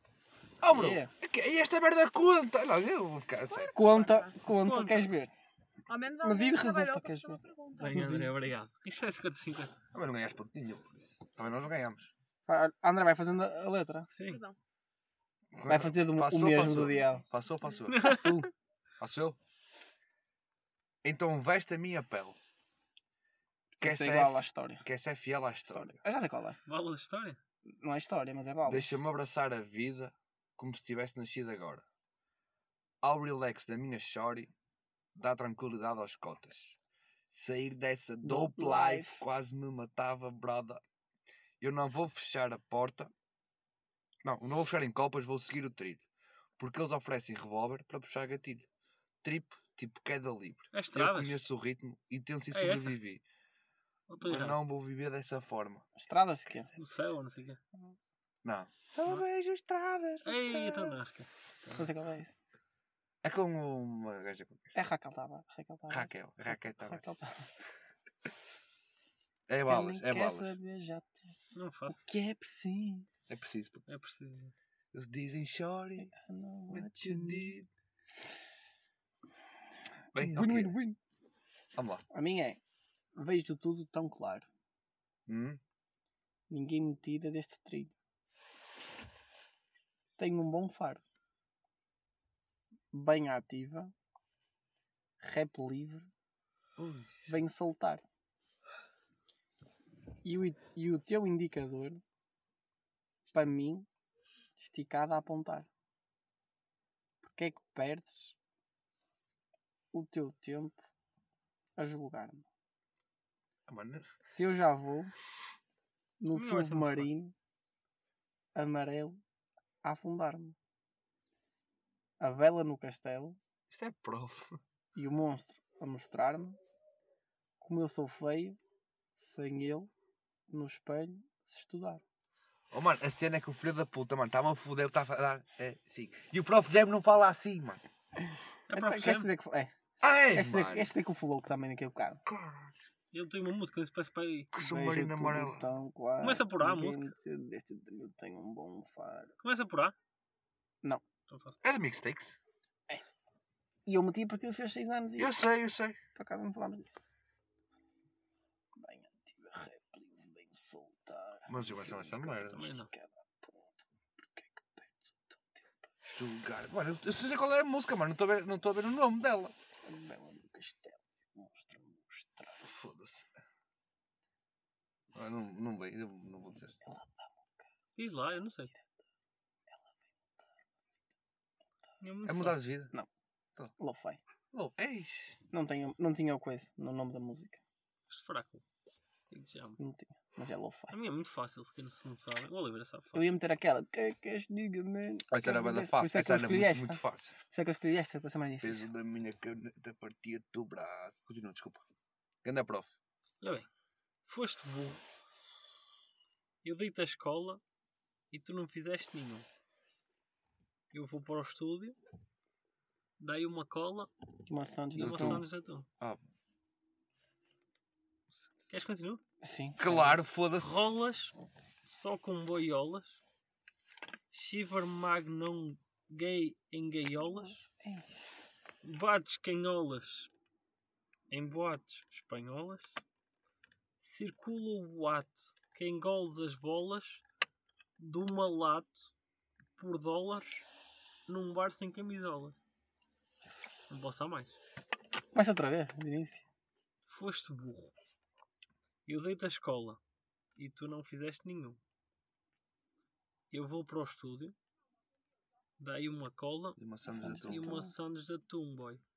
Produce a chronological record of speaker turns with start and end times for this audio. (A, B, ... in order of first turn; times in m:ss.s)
0:00.6-0:03.7 A
0:00.7-0:01.1 B
0:03.5-0:04.3 C
0:03.7-0:05.3 B
0:04.5-0:05.1 D
0:05.9-0:08.3 C
0:06.2-0:08.3 B
0:07.8-0:09.7 D
0:09.9-0:12.1 A
0:12.5-0:14.1 B
0:14.1-0:14.4 D
0:14.2-0:14.6 C
0:15.5-0:19.4 A
0:15.7-0:17.3 B
0:16.9-0:17.8 C
0:17.9-0:18.5 D
0:21.0-0:22.4 A
0:23.7-0:24.8 B
0:23.8-0:26.0 A
0:25.7-0:26.6 B
0:26.7-0:27.4 D
0:27.7-0:29.0 B
0:28.6-0:31.8 A
0:33.0-0:34.5 A
0:35.2-0:36.8 A
0:37.3-0:40.8 A
0:38.2-0:39.2 B
0:41.6-0:43.1 A
0:44.2-0:46.0 A
0:46.6-0:48.7 A
0:49.2-0:53.2 A
0:50.7-0:51.4 D
0:52.5-0:53.0 D
0:54.1-0:54.6 D
0:54.2-0:55.9 A
0:56.0-0:56.7 B
0:56.8-0:57.6 D
0:58.4-1:01.0 A
1:00.2-1:01.9 D
1:01.8-1:02.4 B
1:03.2-1:04.8 A
1:04.8-1:07.7 B
1:05.9-1:07.1 A
1:09.5-1:10.6 A
1:09.7-1:11.4 B
1:11.5-1:12.0 D
1:11.9-1:13.1 B
1:13.3-1:13.9 A
1:13.9-1:14.5 D
1:14.9-1:16.1 A
1:16.1-1:17.6 B
1:16.7-1:17.7 A
1:20.1-1:20.7 A
1:20.2-1:21.0 B
1:21.8-1:22.0 A
1:22.1-1:22.6 B
1:23.2-1:24.5 B
1:25.3-1:25.6 A
1:26.5-1:27.9 B
1:30.2-1:31.0 B
1:32.9-1:33.9 B
1:35.2-1:36.1 B
1:36.8-1:37.3 A
1:37.3-1:38.0 B
1:40.2-1:42.0 B
1:43.3-1:43.9 B
1:44.6-1:45.7 B
1:47.2-1:48.4 B
1:49.9-1:50.8 B
1:51.8-1:52.4 B
1:53.7-1:54.1 A
1:54.3-1:55.1 B
1:56.2-1:57.3 B
1:56.3-1:57.1 D
1:58.6-1:59.2 B
1:59.8-2:00.6 B
2:02.2-2:03.4 B
2:03.7-2:04.6 A
2:05.0-2:06.6 B
2:07.6-2:08.6 B
2:09.2-2:09.9 B
2:10.5-2:12.0 B
2:12.7-2:17.8 A
2:18.7-2:19.3 D
2:18.7-2:19.7 B
2:20.0-2:20.9 A
2:20.3-2:22.2 B
2:22.2-2:22.8 A
2:23.1-2:24.5 D
2:24.5-2:25.7 A
2:24.6-2:29.3 B
2:26.2-2:27.1 D
2:29.4-2:29.9 D
2:31.3-2:31.6 D
2:31.6-2:32.4 A
2:33.9-2:35.4 B
2:35.2-2:36.0 A
2:36.2-2:37.0 B
2:38.8-2:45.8 B
2:41.5-2:42.8 A
2:42.4-2:42.9 D
2:46.1-2:49.5 A
2:49.8-2:52.7 B
2:52.6-2:53.3 A
2:55.1-2:56.8 A
2:56.8-2:57.5 B
2:58.0-2:58.7 D
3:02.0-3:02.6 D
3:02.2-3:02.9 A
3:03.8-3:04.2 B
3:04.5-3:05.4 A
3:05.5-3:07.6 B
3:08.1-3:08.6 D
3:09.3-3:09.8 D
3:09.8-3:11.0 B
3:10.9-3:13.3 D
3:13.1-3:18.9 B
3:15.3-3:17.3 A
3:18.6-3:21.8 A
3:22.4-3:22.9 A
3:23.4-3:23.7 D
3:24.3-3:25.0 D
3:26.6-3:27.6 D
3:28.3-3:29.5 D
3:30.9-3:32.0 D
3:33.2-3:34.1 D
3:34.5-3:35.4 B
3:35.0-3:35.9 D
3:35.0-3:35.4 A
3:38.7-3:39.2 D
3:39.4-3:40.1 B
3:39.8-3:40.8 A
3:40.6-3:43.2 D
3:44.3-3:47.6 D
3:47.3-3:48.2 B
3:48.8-3:50.3 D
3:51.3-3:53.0 D
3:54.0-3:57.2 D
3:58.0-3:59.1 D
3:59.8-4:00.6 D
4:01.3-4:02.6 D
4:03.9-4:04.6 D
4:05.3-4:06.4 B
4:07.1-4:07.9 D
4:09.1-4:10.0 D
4:10.6-4:11.8 D
4:13.5-4:14.6 D
4:15.8-4:19.0 D
4:16.8-4:17.7 A
4:17.1-4:17.9 B